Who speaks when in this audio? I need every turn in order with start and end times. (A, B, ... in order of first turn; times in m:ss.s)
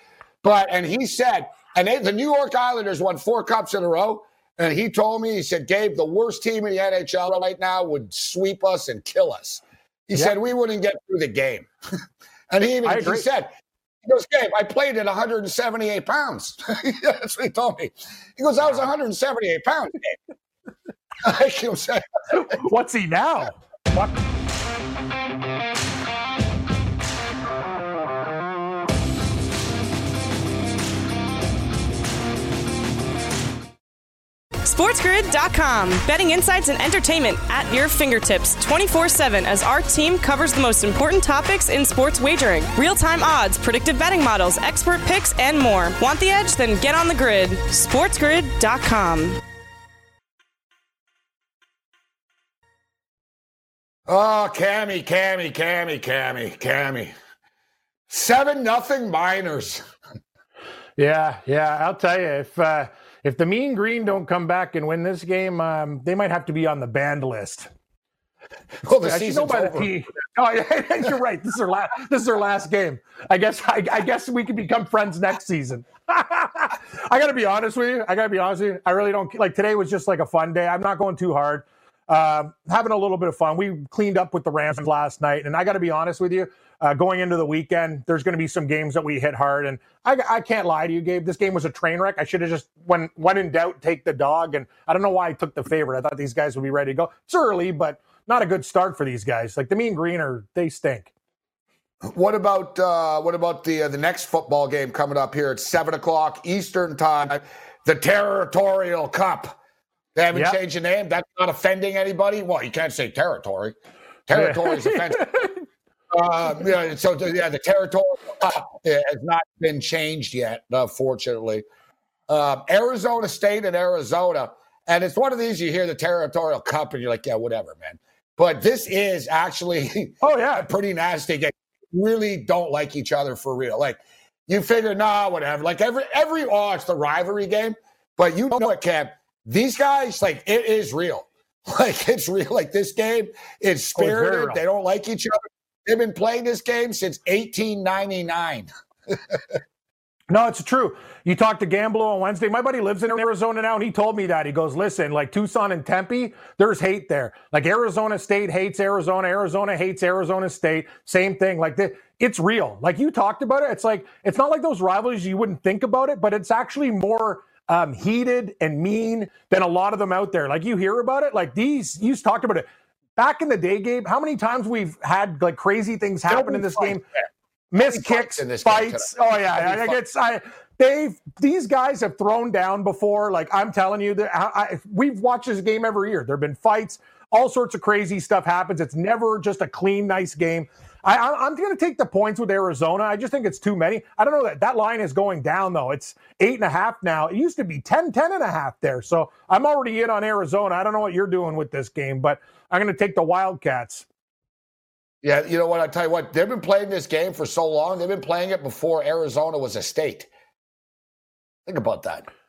0:00.4-0:11.7 A
0:12.5-0:13.5 A
0:12.8-0:13.2 B
0:14.0-0:20.2 A
0:21.2-0:22.6 A
0:22.3-0:24.2 B
0:34.6-0:49.4 C
0:54.1-0:57.1 A
0:58.1-0:59.8 A
1:01.0-1:07.7 B
1:08.8-1:09.9 A
1:09.0-1:41.1 B
1:42.0-1:49.6 A
1:50.1-1:53.8 A
1:50.3-1:50.6 B
1:54.3-1:55.3 A
1:54.3-1:55.6 B
1:56.1-2:01.6 A
2:02.3-2:29.6 A
2:10.2-2:10.7 B
2:24.0-2:24.6 B
2:30.3-2:57.0 B
2:56.3-2:57.0 A
2:57.7-3:24.0 B
2:57.8-3:00.0 A
3:25.2-3:30.3 A
3:31.6-3:32.3 A